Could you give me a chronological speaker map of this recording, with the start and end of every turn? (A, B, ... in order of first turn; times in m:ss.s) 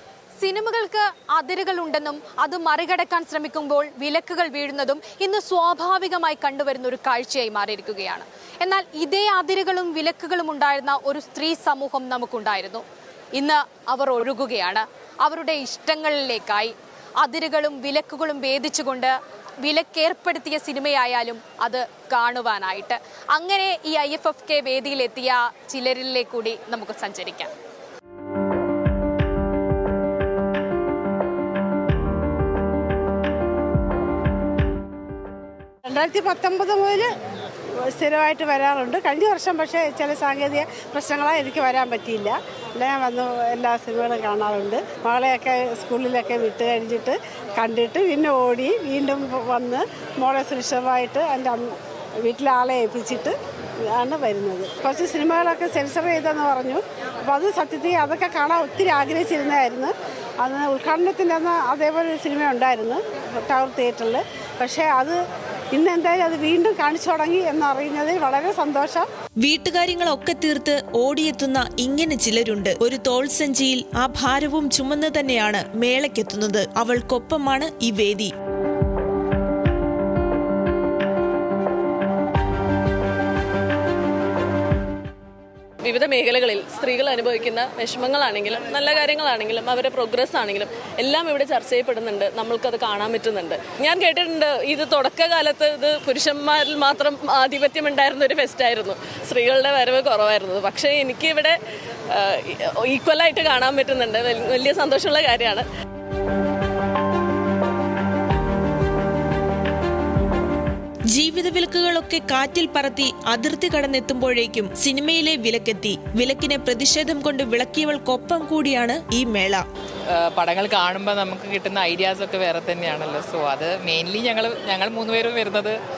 0:00.4-0:12.8 A
0:13.4-0:27.5 A
0:35.8-0:37.1 B
0:37.9-0:53.3 B
0:53.9-1:05.2 B
1:05.7-1:09.1 B
1:09.4-1:18.3 C
1:25.8-1:41.6 D
1:42.1-1:45.6 D
1:51.1-1:59.6 C
2:00.2-2:05.8 E